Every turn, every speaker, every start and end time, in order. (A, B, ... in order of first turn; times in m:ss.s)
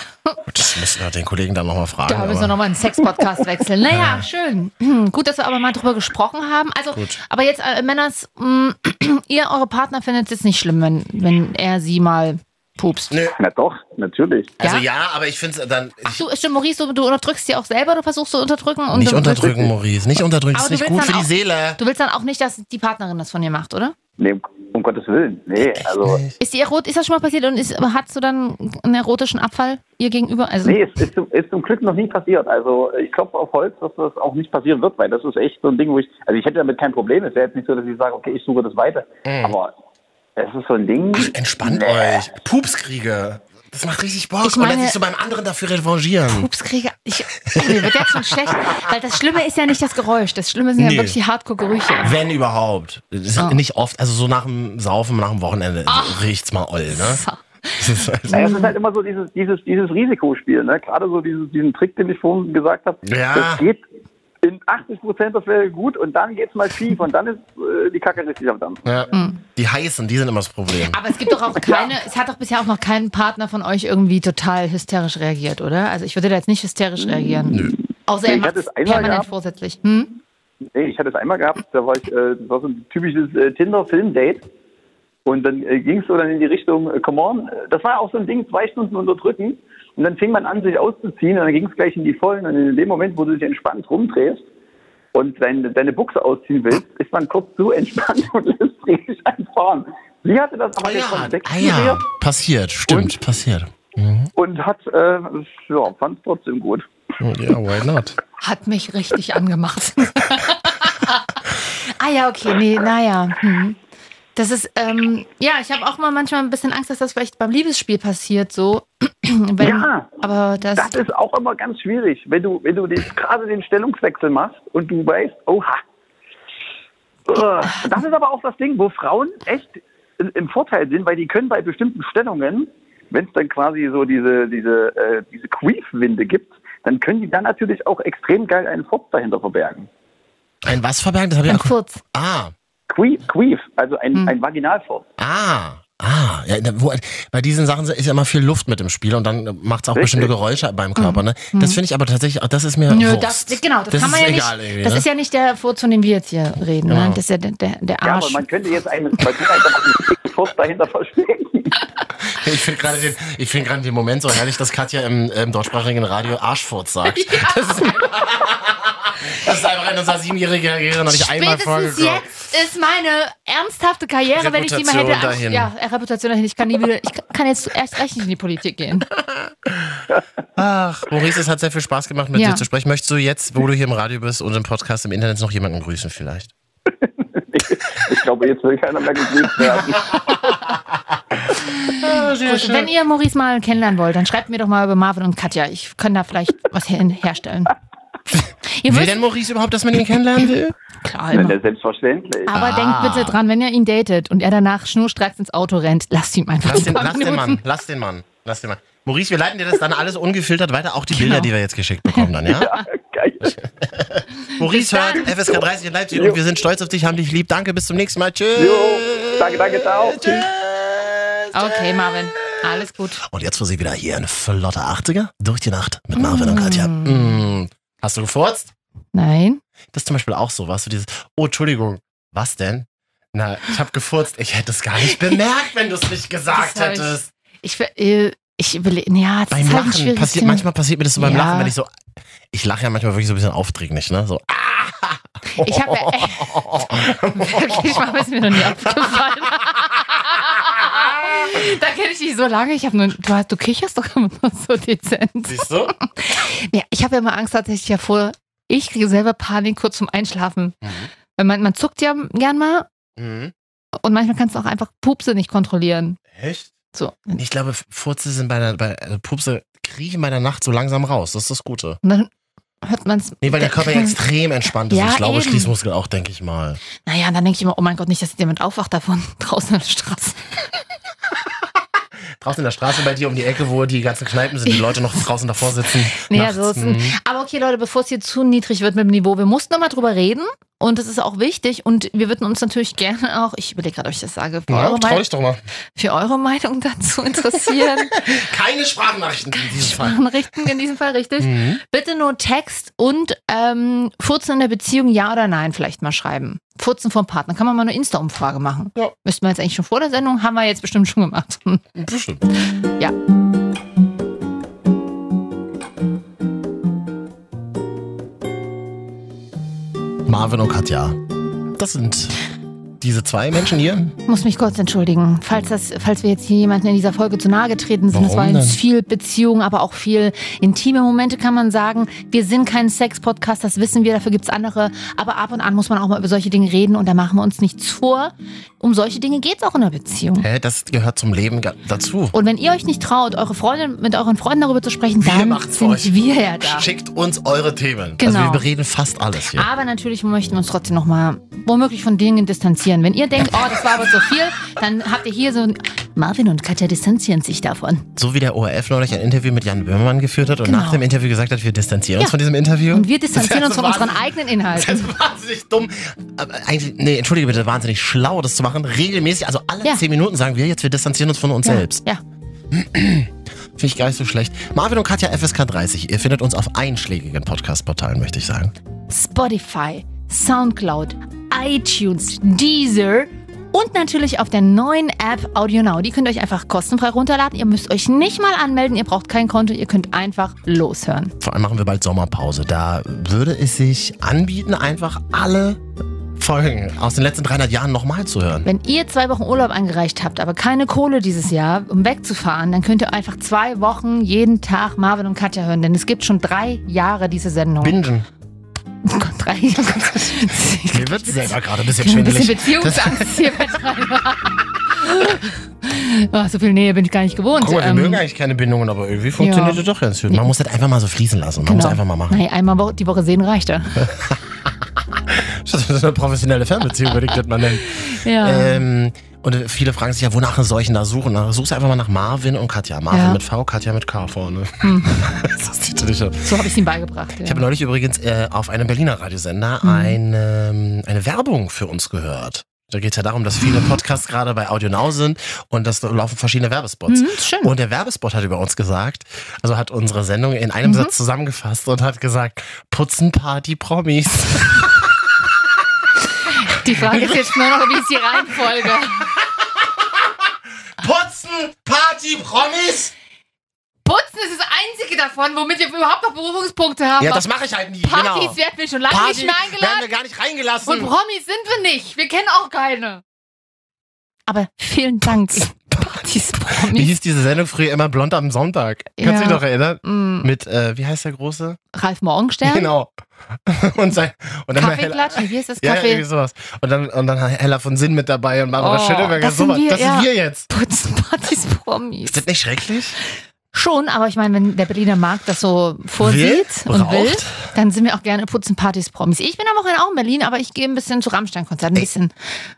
0:00.5-0:02.5 A
0:02.1-0:13.1 B
0:03.9-0:04.2 A
0:06.9-0:07.2 A
0:13.4-0:14.5 C
0:14.6-0:16.2 A
0:16.1-0:19.7 B
0:18.9-0:21.8 A
0:20.5-0:24.0 B
0:24.2-0:26.2 C
0:25.7-0:26.4 A
0:26.4-0:30.8 B
0:30.6-0:39.7 C
0:39.2-0:39.6 A
0:40.4-0:42.3 C
0:41.1-0:46.5 A
0:44.4-0:45.0 B
0:46.3-0:52.2 B
0:47.4-0:48.9 A
0:50.8-0:51.2 A
0:52.0-0:57.2 A
0:55.9-0:56.2 B
0:56.9-0:58.7 B
0:57.8-0:58.4 A
0:58.3-1:03.8 C
1:03.0-1:03.6 A
1:04.4-1:08.9 C
1:08.8-1:11.0 A
1:09.1-1:09.4 B
1:10.9-1:20.2 B
1:11.6-1:11.9 C
1:18.2-1:19.3 C
1:20.7-1:24.4 C
1:25.3-1:34.5 C
1:35.1-1:42.0 C
1:40.8-1:44.3 A
1:42.9-1:43.2 C
1:44.4-1:46.9 C
1:47.2-1:48.2 A
1:48.4-1:53.8 B
1:54.4-2:01.0 B
1:59.6-2:00.2 C
2:00.8-2:05.8 C
2:07.3-2:19.9 C
2:20.6-2:22.5 A
2:21.5-2:22.0 B
2:22.9-2:25.1 C
2:25.2-2:35.0 A
2:30.0-2:30.3 C
2:31.0-2:31.8 B
2:32.9-2:38.4 B
2:36.9-2:37.2 A
2:38.0-2:41.8 C
2:42.3-2:52.3 A
2:47.1-2:48.1 B
2:51.1-2:59.1 B
2:54.4-2:55.7 A
2:59.2-3:00.0 A
3:00.6-3:06.5 A
3:02.4-3:02.6 B
3:07.0-3:10.4 C
3:10.1-3:10.6 A
3:11.5-3:12.9 A
3:11.9-3:17.8 B
3:18.3-3:20.8 A
3:18.8-3:19.2 B
3:21.0-3:21.6 B
3:21.3-3:22.5 C
3:22.5-3:27.6 B
3:22.5-3:23.4 A
3:26.6-3:32.7 A
3:31.1-3:31.5 B
3:32.1-3:32.9 B
3:32.5-3:33.6 C
3:33.4-3:42.6 A
3:34.6-3:35.3 B
3:36.1-3:36.4 C
3:38.6-3:40.5 C
3:41.5-3:43.2 B
3:43.2-3:48.7 A
3:46.2-3:47.4 B
3:49.1-3:49.6 B
3:49.9-3:57.3 A
3:55.1-3:55.4 B
3:56.5-4:00.6 B
3:59.5-4:01.9 A
4:01.2-4:01.7 B
4:02.5-4:09.1 A
4:05.6-4:22.9 B
4:10.6-4:11.3 A
4:15.5-4:15.9 A
4:20.8-4:21.1 A
4:23.2-4:23.5 A
4:24.0-4:26.2 B
4:26.3-4:26.7 A
4:27.0-4:27.4 B
4:27.4-4:32.0 A
4:32.0-4:32.3 B
4:32.8-4:34.2 B
4:33.4-4:36.8 A
4:34.9-4:35.7 B
4:37.0-4:40.4 B
4:42.4-4:47.2 A
4:44.7-4:45.0 B
4:46.2-4:55.3 B
4:54.7-4:55.6 A
4:56.0-4:58.2 B
4:57.9-5:00.2 A
4:59.6-5:11.8 B
5:01.4-5:01.8 A
5:12.0-5:12.4 A
5:20.3-5:21.2 A
5:21.8-5:22.4 A
5:23.0-5:24.1 A
5:24.3-5:40.5 B
5:28.1-5:28.8 A
5:40.4-5:42.4 A
5:42.3-5:46.9 B
5:45.2-5:49.7 A
5:48.2-5:48.6 B
5:49.5-5:58.1 B
5:58.2-6:12.0 A
6:00.6-6:01.0 B
6:02.9-6:05.1 B
6:11.6-6:12.2 B
6:12.7-6:18.7 A
6:19.1-6:31.3 B
6:31.4-6:35.8 A
6:36.4-6:38.7 A
6:38.6-6:48.0 B
6:47.8-6:48.3 A
6:49.0-6:58.2 B
6:50.0-6:53.6 A
6:57.6-7:02.4 A
6:59.4-7:00.5 B
7:01.6-7:04.1 B
7:04.0-7:16.5 A
7:07.3-7:08.8 B
7:13.1-7:13.4 B
7:14.8-7:15.2 B
7:16.4-7:17.6 B
7:17.4-7:35.1 A
7:19.8-7:20.2 B
7:27.1-7:27.7 B
7:30.8-7:31.1 B
7:36.5-7:39.3 B
7:36.9-7:38.2 A
7:38.8-7:40.4 A
7:41.0-7:43.1 A
7:44.0-7:47.5 B
7:47.2-7:48.6 A
7:48.0-7:50.1 B
7:49.1-7:51.1 A
7:50.8-7:53.2 B
7:54.5-7:57.1 B
7:55.4-7:56.2 A
7:56.8-8:01.8 A
7:59.2-8:00.5 B
8:02.0-8:02.9 B
8:02.6-8:03.1 A
8:03.6-8:10.7 A
8:04.8-8:06.2 B
8:08.8-8:12.4 B
8:12.3-8:13.2 A
8:13.7-8:22.3 B
8:16.2-8:17.7 A